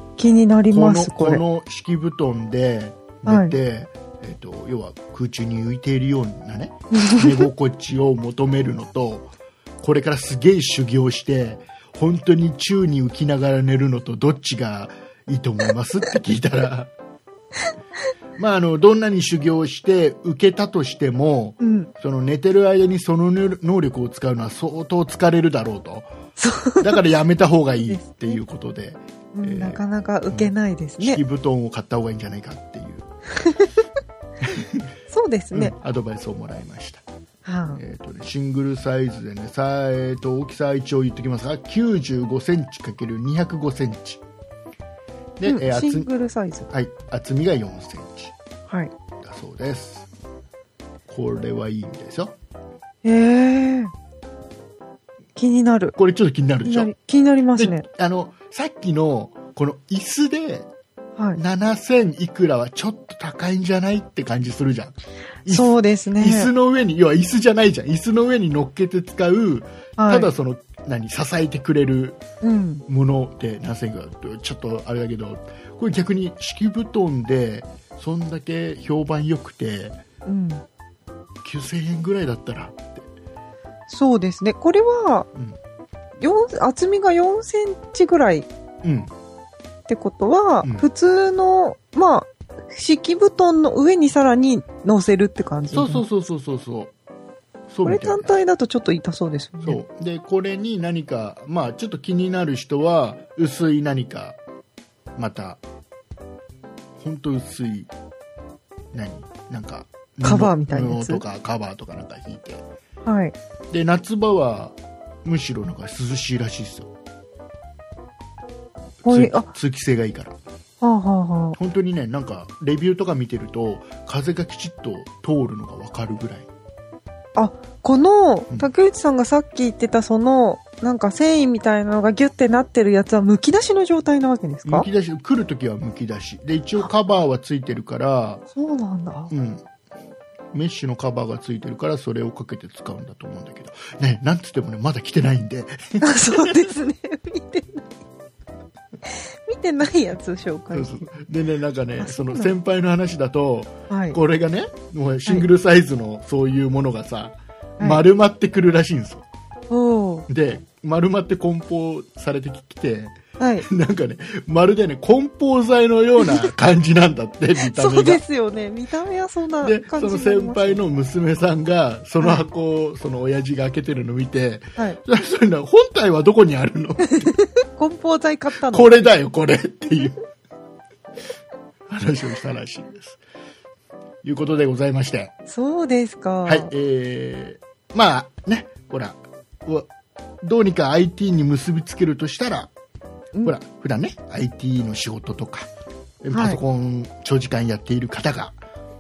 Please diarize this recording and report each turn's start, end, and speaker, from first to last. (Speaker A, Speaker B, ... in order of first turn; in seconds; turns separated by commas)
Speaker A: 0.2-1.4, Speaker B: 0.7-16.9, Speaker A: 3.3-3.5, Speaker A: 6.9-7.3, Speaker B: 18.4-26.1, Speaker A: 21.6-21.9, Speaker A: 26.4-27.0, Speaker B: 26.8-33.1, Speaker A: 27.9-28.3, Speaker A: 29.3-31.2, Speaker A: 33.4-33.7, Speaker B: 34.4-34.9, Speaker A: 35.1-35.8, Speaker B: 35.5-37.0, Speaker A: 37.5-37.8, Speaker B: 37.7-44.2, Speaker B: 45.4-46.1, Speaker A: 45.5-46.7, Speaker B: 46.7-48.4, Speaker A: 48.7-48.9, Speaker B: 49.2-50.1, Speaker B: 51.1-52.4, Speaker A: 53.0-53.9, Speaker A: 55.4-56.0, Speaker B: 56.0-56.9, Speaker A: 56.6-57.9, Speaker B: 57.6-60.7, Speaker B: 61.4-72.2, Speaker A: 65.5-66.5, Speaker A: 70.0-70.3, Speaker A: 72.4-72.8, Speaker B: 72.9-80.0, Speaker A: 80.3-80.6, Speaker B: 81.4-83.1, Speaker A: 83.9-85.3, Speaker A: 86.2-88.5, Speaker B: 88.8-89.1, Speaker A: 89.9-96.0, Speaker B: 90.6-90.9, Speaker B: 95.7-96.9, Speaker B: 97.7-98.4, Speaker A: 97.8-99.8, Speaker B: 99.6-104.4, Speaker B: 105.2-105.6, Speaker B: 107.0-107.9, Speaker B: 108.9-112.7, Speaker A: 110.2-111.2, Speaker A: 113.0-113.3, Speaker B: 113.7-116.9, Speaker B: 119.0-120.4, Speaker A: 119.0-119.5, Speaker A: 120.8-121.6, Speaker B: 121.6-126.5, Speaker A: 127.4-134.9, Speaker B: 134.7-138.4, Speaker A: 138.6-139.3, Speaker B: 139.3-139.6, Speaker B: 140.5-146.7, Speaker A: 146.0-147.9, Speaker A: 149.1-151.1, Speaker B: 150.7-159.3, Speaker A: 152.0-152.5, Speaker A: 153.9-154.2, Speaker A: 157.8-158.1, Speaker A: 159.7-160.3, Speaker B: 160.3-168.2, Speaker A: 163.4-163.7, Speaker A: 167.6-170.8, Speaker B: 169.6-177.3, Speaker A: 177.1-179.1, Speaker B: 178.5-180.2, Speaker B: 181.9-183.2, Speaker B: 184.2-185.3, Speaker A: 185.5-186.7, Speaker B: 186.4-189.9, Speaker B: 190.4-192.7, Speaker B: 193.4-195.7, Speaker B: 196.2-198.6, Speaker A: 196.3-196.6